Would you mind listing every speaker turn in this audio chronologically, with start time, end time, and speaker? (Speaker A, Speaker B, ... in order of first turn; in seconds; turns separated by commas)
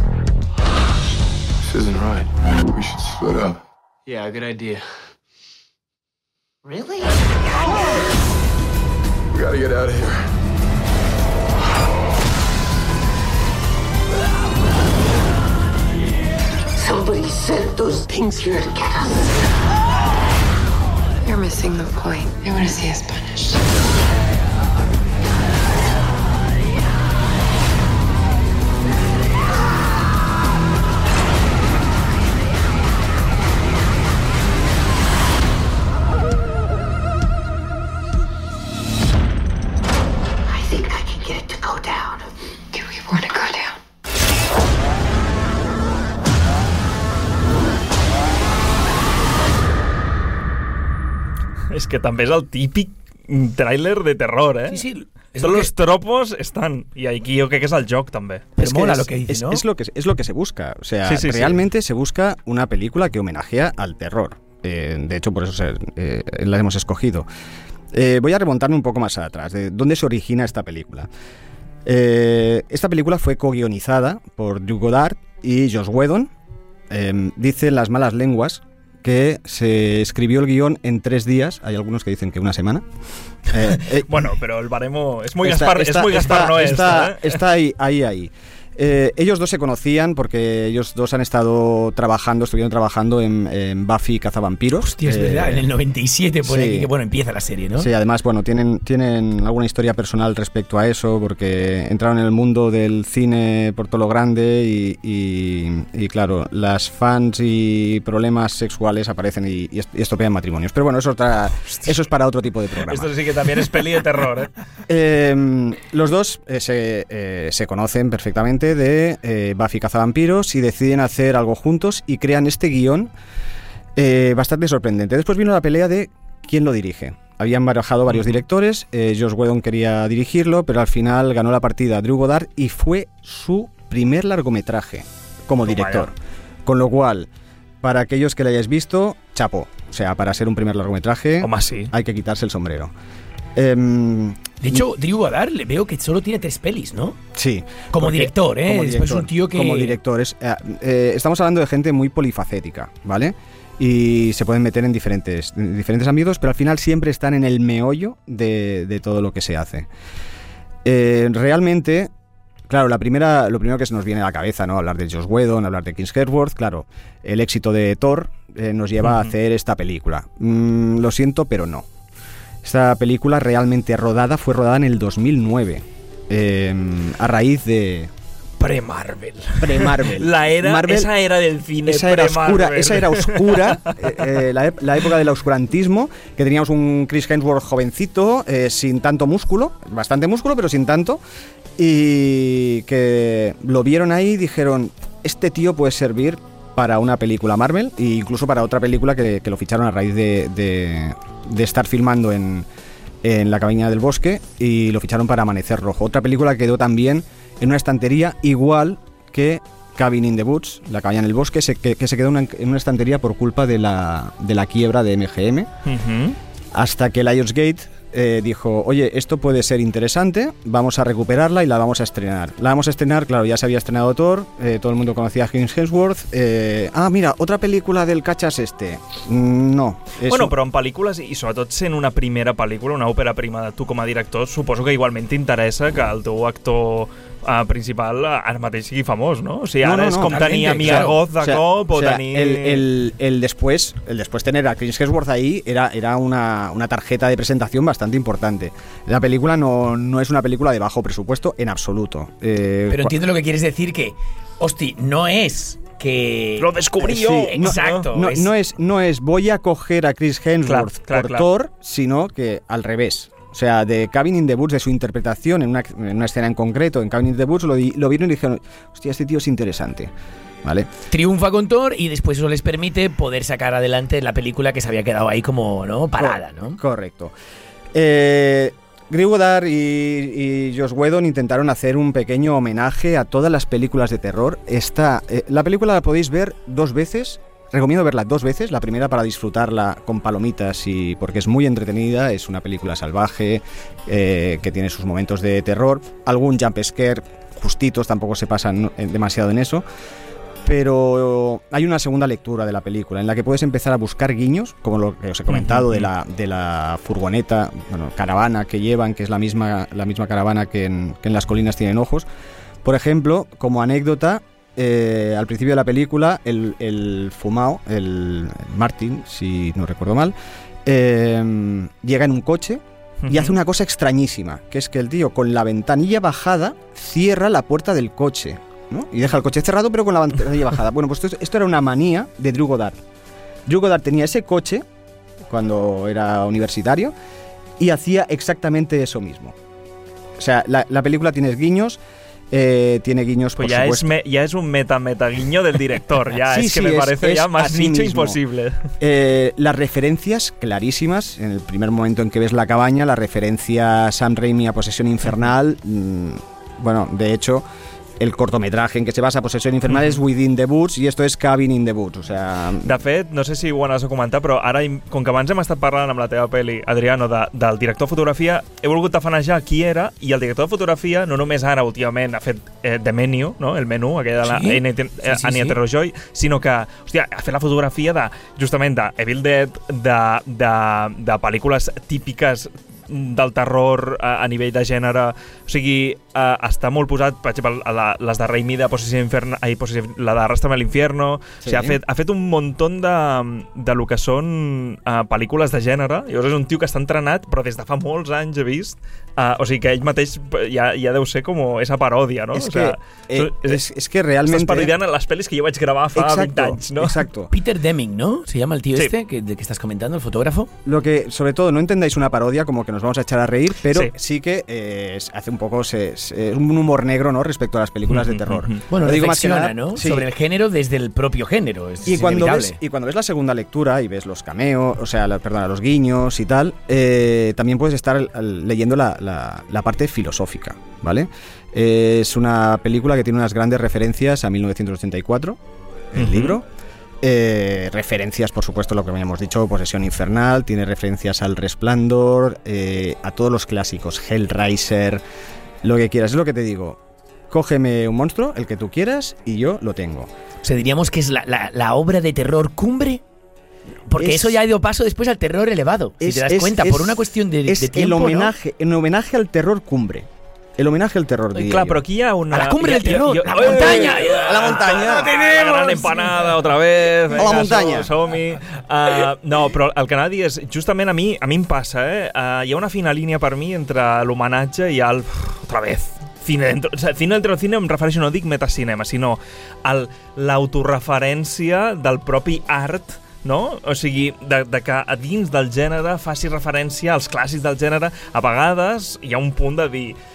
Speaker A: 1.6-3.6, Speaker B: 6.6-8.0, Speaker A: 9.3-10.3, Speaker B: 16.8-19.2, Speaker C: 21.2-23.6, Speaker B: 40.5-42.1, Speaker C: 42.7-43.8, Speaker D: 51.7-54.8, Speaker E: 54.7-55.7, Speaker D: 55.4-58.5, Speaker E: 58.6-59.6, Speaker F: 58.6-67.3, Speaker D: 61.0-61.6, Speaker F: 67.9-71.1, Speaker F: 71.8-76.3, Speaker F: 76.9-82.8, Speaker F: 83.5-84.1, Speaker D: 83.8-87.4, Speaker F: 85.4-95.7, Speaker E: 94.8-97.9, Speaker F: 96.5-96.9, Speaker F: 97.8-113.1, Speaker D: 112.9-114.5, Speaker F: 114.9-123.1, Speaker F: 124.0-136.1, Speaker D: 135.6-136.1, Speaker F: 136.7-137.3, Speaker F: 137.8-142.9, Speaker D: 141.4-141.9, Speaker F: 143.6-144.8, Speaker E: 144.6-147.2, Speaker F: 147.3-159.9, Speaker E: 147.9-150.0, Speaker F: 160.8-162.1, Speaker F: 162.7-171.8, Speaker F: 172.6-178.1, Speaker E: 178.6-179.4, Speaker D: 179.6-184.2, Speaker F: 179.6-181.1, Speaker F: 181.8-191.2, Speaker F: 191.8-202.7, Speaker F: 203.2-215.7, Speaker D: 215.8-216.4, Speaker F: 216.7-230.5, Speaker D: 230.2-242.8, Speaker F: 239.8-253.1, Speaker E: 240.2-241.2, Speaker E: 252.9-258.5, Speaker D: 256.6-258.1, Speaker F: 257.0-270.1, Speaker D: 260.6-261.4, Speaker F: 270.6-270.9, Speaker E: 271.1-276.8, Speaker F: 276.2-277.3, Speaker F: 277.9-299.8, Speaker F: 300.6-312.3, Speaker D: 305.5-306.0, Speaker F: 312.8-320.3, Speaker F: 320.9-333.0, Speaker D: 323.2-323.5, Speaker F: 333.7-334.8, Speaker F: 335.5-337.1, Speaker F: 337.8-339.5, Speaker F: 340.4-344.1, Speaker D: 343.6-348.9, Speaker F: 346.5-348.4, Speaker F: 349.0-357.6, Speaker F: 358.2-362.9, Speaker D: 362.8-403.8, Speaker E: 374.5-375.8, Speaker F: 391.6-392.0, Speaker F: 402.5-404.9, Speaker D: 404.4-407.2, Speaker F: 406.1-407.5, Speaker E: 407.5-410.7, Speaker F: 410.8-420.2, Speaker D: 418.1-418.8, Speaker E: 418.9-422.8, Speaker F: 422.1-435.6, Speaker F: 436.1-436.6, Speaker D: 436.1-436.6, Speaker F: 437.2-445.2, Speaker F: 445.8-450.3, Speaker E: 450.6-453.2, Speaker E: 454.1-458.5, Speaker F: 454.1-454.6, Speaker F: 456.2-462.0, Speaker D: 461.5-490.2, Speaker E: 462.5-466.5, Speaker F: 463.5-465.3, Speaker F: 467.3-468.1